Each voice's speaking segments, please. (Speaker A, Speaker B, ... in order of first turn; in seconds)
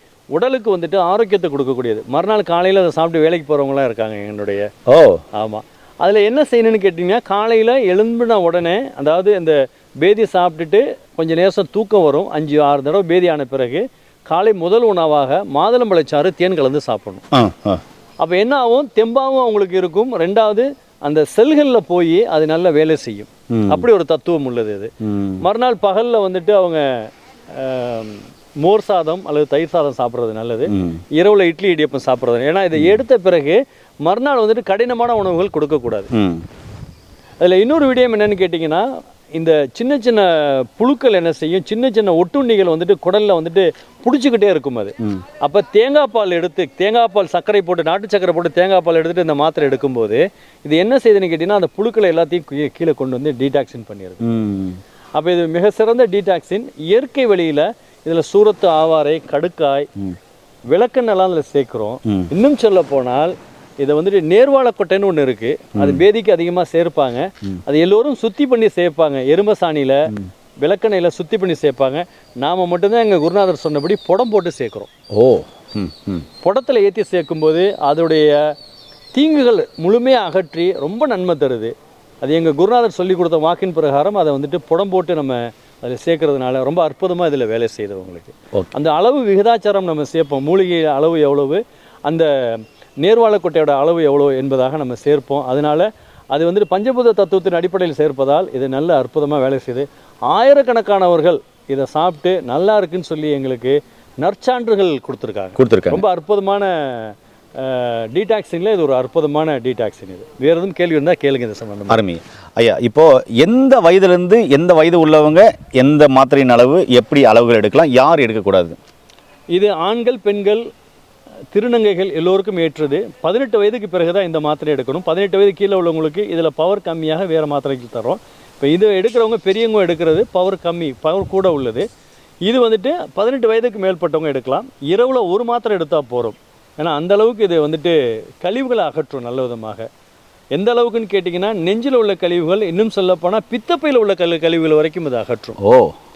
Speaker A: 0.3-4.7, 5.3-17.2, 18.2-36.1, 37.4-54.2, 55.1-59.9, 60.7-70.0, 70.6-74.9, 76.4-78.5, 79.1-112.0, 119.5-120.6, 121.5-131.9, 132.4-139.9, 140.5-145.6
Speaker B: 4.9-5.2, 17.3-17.8, 23.5-23.9, 25.0-25.4, 30.7-31.0, 36.1-36.4, 54.2-54.8, 65.8-66.0, 75.1-76.3, 105.6-106.0, 111.9-118.8, 145.6-145.9